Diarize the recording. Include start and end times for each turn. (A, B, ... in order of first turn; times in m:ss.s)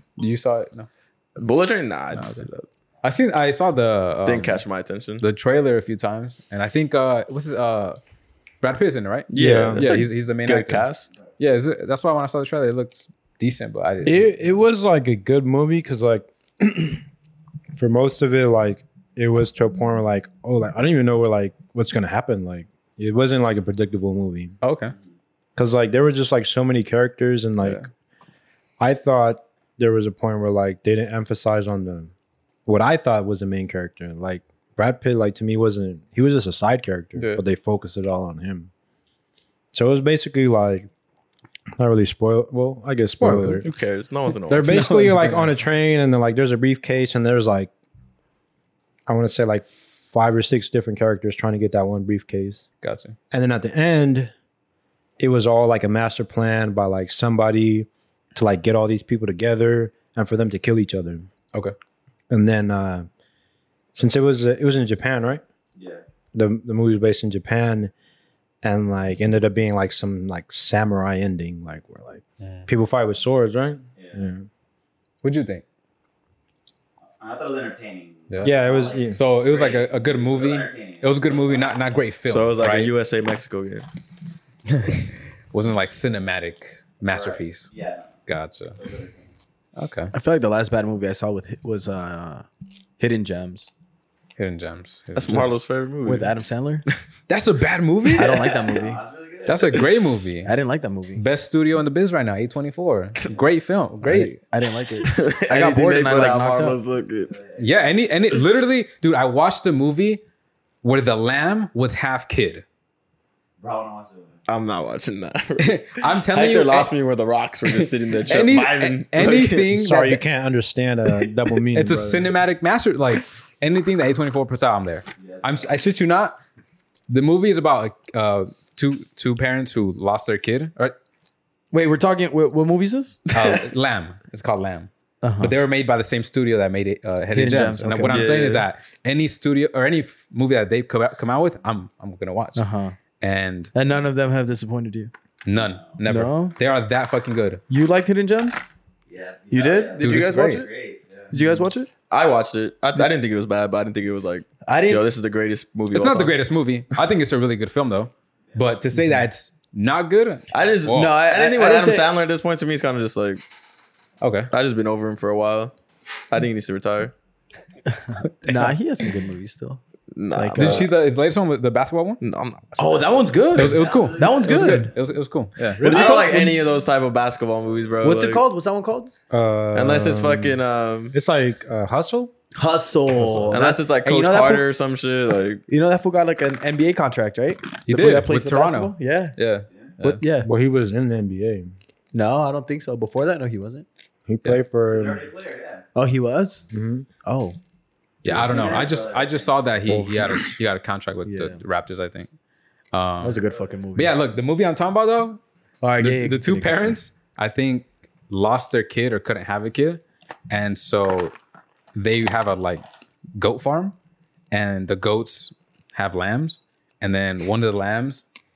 0:00.2-0:00.9 A
0:01.4-0:02.7 B
0:02.1-0:02.5 A
0:03.0-0:04.6 A
0:04.2-0:05.2 B
0:05.2-0:08.0 A
0:08.6-0:10.8 A
0:09.3-0:11.1 B
0:09.3-0:09.9 C
0:11.4-0:14.4 A
0:14.0-0:17.0 C
0:17.7-0:24.6 C
0:24.6-0:24.9 A
0:25.6-0:27.9 C
0:27.6-0:27.9 A
0:28.8-0:32.1 C
0:32.6-0:38.7 C
0:37.2-0:37.4 A
0:39.7-0:40.9 C
0:41.8-0:43.7 C
0:43.2-0:43.7 A
0:43.6-0:45.0 B
0:44.5-0:47.7 C
0:44.5-0:45.5 A
0:49.1-0:52.6 C
0:52.8-0:53.2 A
0:53.3-0:54.3 C
0:55.2-1:01.3 C
1:02.3-1:03.1 C
1:03.9-1:05.4 C
1:06.3-1:07.9 C
1:08.6-1:14.4 C
1:12.4-1:12.7 A
1:14.0-1:14.2 D
1:15.2-1:15.6 A
1:17.2-1:21.8 D
1:18.3-1:18.6 A
1:18.4-1:19.2 C
1:19.1-1:22.9 A
1:22.3-1:23.9 B
1:24.7-1:27.7 A
1:27.1-1:28.1 D
1:28.2-1:28.8 A
1:28.8-1:29.2 D
1:29.8-1:30.1 A
1:30.1-1:32.4 E
1:33.0-1:33.7 E
1:34.4-1:35.5 A
1:35.2-1:36.3 B
1:36.0-1:36.8 E
1:37.3-1:38.5 A
1:38.1-1:39.0 E
1:38.6-1:39.9 D
1:39.4-1:40.5 A
1:40.4-1:41.2 E
1:41.2-1:44.4 A
1:44.0-1:46.8 E
1:45.0-1:47.3 B
1:47.2-1:47.8 D
1:47.6-1:50.2 A
1:50.8-1:52.6 A
1:53.6-1:54.4 D
1:54.5-1:59.7 B
1:55.6-1:56.9 A
1:57.6-2:00.2 A
1:59.7-2:02.4 C
2:01.7-2:06.4 A
2:05.2-2:05.7 D
2:07.1-2:10.9 A
2:11.7-2:13.2 E
2:13.3-2:13.7 B
2:13.3-2:22.7 A
2:15.2-2:15.6 E
2:17.3-2:18.4 E
2:18.1-2:18.6 B
2:22.6-2:23.0 E
2:23.2-2:23.7 A
2:23.7-2:25.1 E
2:25.4-2:27.6 A
2:25.6-2:26.0 D
2:26.0-2:26.6 E
2:27.7-2:28.6 E
2:29.1-2:31.3 D
2:29.5-2:30.7 E
2:30.0-2:30.7 A
2:31.3-2:31.9 E
2:32.1-2:36.4 B
2:34.7-2:35.0 E
2:35.9-2:41.1 A
2:40.5-2:43.4 B
2:40.8-2:42.1 E
2:44.2-2:44.5 A
2:44.5-2:45.7 B
2:46.3-2:47.1 B
2:47.9-2:49.8 E
2:48.2-2:48.7 A
2:50.1-2:50.9 B
2:50.3-2:50.9 E
2:50.6-2:52.2 A
2:52.2-2:53.4 B
2:52.8-2:54.9 E
2:53.5-2:55.8 A
2:53.6-2:54.8 D
2:55.8-2:56.2 C
2:55.8-2:56.6 E
2:55.8-2:58.4 B
2:58.0-2:59.1 E
2:59.3-3:02.3 C
2:59.7-3:01.2 B
3:02.5-3:04.6 E
3:03.1-3:03.6 A
3:03.5-3:05.6 B
3:05.7-3:09.4 E
3:07.9-3:10.2 A
3:10.0-3:10.5 E
3:10.4-3:11.7 C
3:12.1-3:13.8 E
3:14.3-3:15.2 C
3:14.9-3:15.9 D
3:15.9-3:16.6 E
3:16.7-3:17.1 C
3:17.2-3:17.6 E
3:18.2-3:22.3 A
3:18.3-3:19.6 D
3:19.9-3:20.4 C
3:21.2-3:21.6 E
3:22.9-3:23.4 A
3:23.2-3:24.2 E
3:23.9-3:25.4 A
3:25.8-3:27.0 E
3:26.0-3:31.3 A
3:31.9-3:32.8 A
3:33.4-3:34.0 A
3:34.5-3:38.2 A